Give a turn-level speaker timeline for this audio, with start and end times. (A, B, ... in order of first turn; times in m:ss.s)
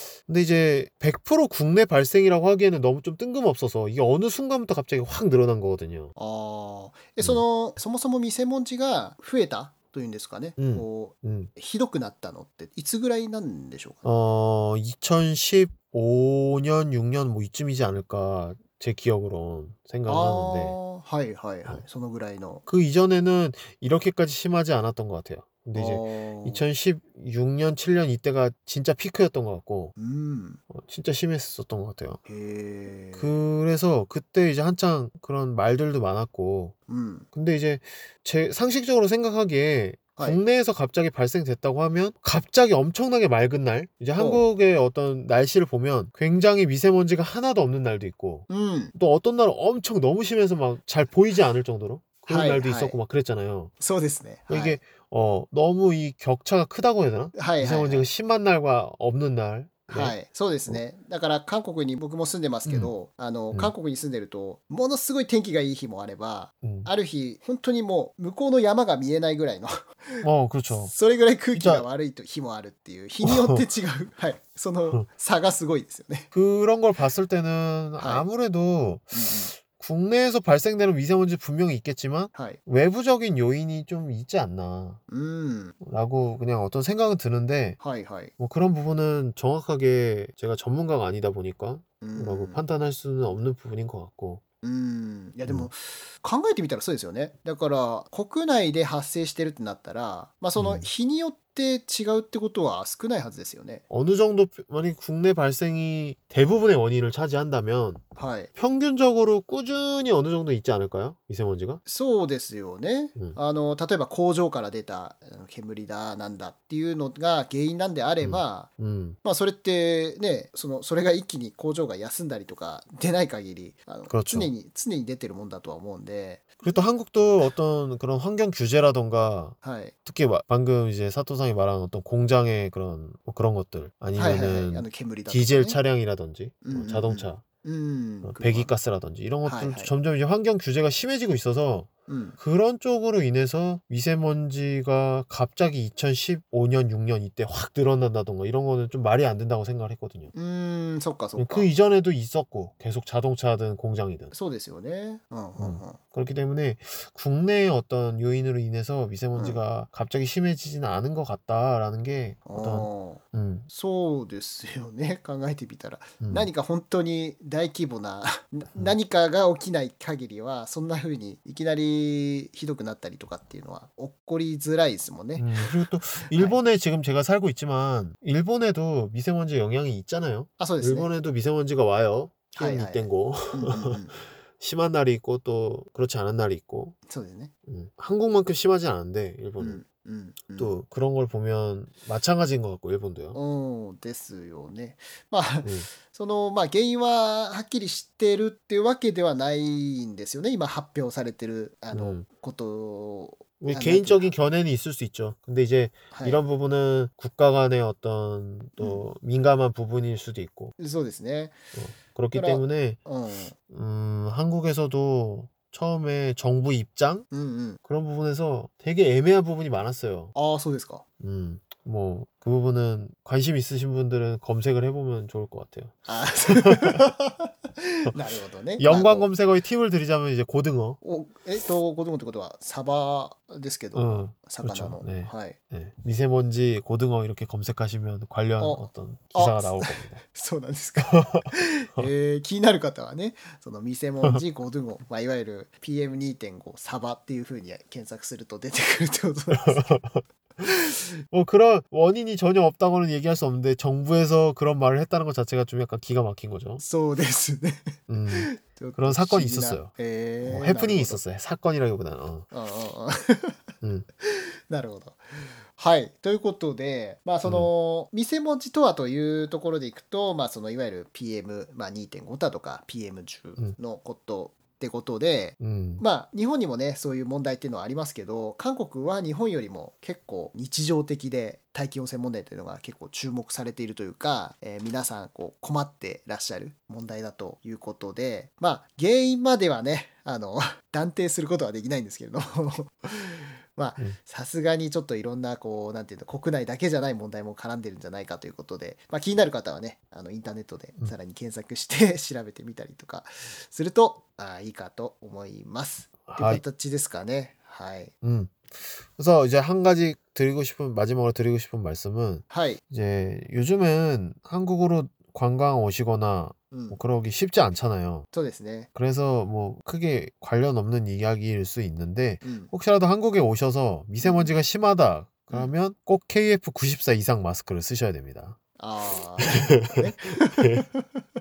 0:00.2-0:06.1 A
0:06.2-0:14.1 B
0:10.6-0:11.5 A
0:14.0-0:20.8 A
0:20.1-0:22.6 B
0:22.7-0:29.9 A
0:25.7-0:26.6 B
0:30.0-0:30.6 B
0:30.7-0:32.2 A
0:32.2-0:33.4 B
0:33.1-0:36.7 A
0:36.9-0:37.3 B
0:37.3-0:53.7 A
0:44.2-0:44.4 B
0:48.5-0:48.9 B
0:52.2-0:53.0 B
0:53.8-0:54.8 B
0:54.5-1:00.2 A
0:57.3-0:58.1 B
0:59.9-1:16.3 B
1:02.6-1:02.9 A
1:06.6-1:06.9 A
1:10.2-1:10.9 A
1:11.5-1:11.9 A
1:13.2-1:13.6 A
1:16.3-1:25.0 A
1:18.0-1:18.3 B
1:19.1-1:19.5 B
1:22.3-1:22.6 B
1:25.1-1:25.8 B
1:25.8-1:27.8 A
1:27.8-1:28.3 B
1:28.4-1:34.4 A
1:32.0-1:32.6 B
1:34.6-1:43.8 B
1:40.6-1:40.9 A
1:43.9-1:48.0 A
1:48.2-1:48.5 B
1:48.6-1:51.8 A
1:51.8-1:58.7 B
1:58.2-1:59.2 A
1:59.2-2:06.8 B
2:04.1-2:04.5 A
2:06.6-2:17.4 A
2:09.6-2:09.9 B
2:14.2-2:15.8 B
2:16.6-2:18.7 B
2:18.2-2:30.3 A
2:19.4-2:19.9 B
2:22.1-2:22.4 B
2:30.3-2:31.7 B
2:31.4-2:34.3 A
2:34.3-2:36.0 B
2:35.6-2:43.7 A
2:39.3-2:39.6 B
2:42.5-2:56.6 B
2:46.2-2:46.5 A
2:55.4-3:04.0 A
3:00.6-3:01.1 B
3:02.5-3:04.3 B
3:04.5-3:07.0 A
3:07.1-3:07.5 B
3:07.7-3:09.8 A
3:09.6-3:10.7 B
3:10.6-3:13.4 A
3:13.3-3:24.3 B
3:15.6-3:15.9 A
3:21.9-3:22.2 A
3:23.6-3:30.7 A
3:26.1-3:26.4 B
3:28.8-3:29.0 B
3:30.8-3:31.6 B
3:31.7-3:33.1 A
3:32.3-3:33.5 B
3:33.6-3:37.3 A
3:37.3-3:37.8 B
3:37.8-3:40.3 A
3:40.3-3:41.0 B
3:41.2-3:45.9 A
3:46.0-3:49.3 B
3:46.5-3:47.0 A
3:48.8-3:51.0 A
3:51.0-3:55.6 B
3:53.9-4:00.2 A
3:58.6-4:09.9 B
4:01.0-4:02.1 A
4:09.5-4:10.2 A
4:11.3-4:16.8 A
4:16.8-4:21.2 B
4:18.1-4:19.9 A
4:20.4-4:22.5 A
4:22.5-4:23.6 B
4:24.2-5:08.1 B
4:27.4-4:27.7 A
4:35.6-4:36.0 A
5:06.2-5:06.6 A
5:08.2-5:18.3 A
5:12.5-5:12.8 B
5:16.7-5:17.0 B
5:18.3-5:18.9 B
5:18.9-5:28.6 A
5:22.4-5:22.7 B
5:24.2-5:24.6 B
5:28.8-5:31.2 B
5:30.6-5:30.8 A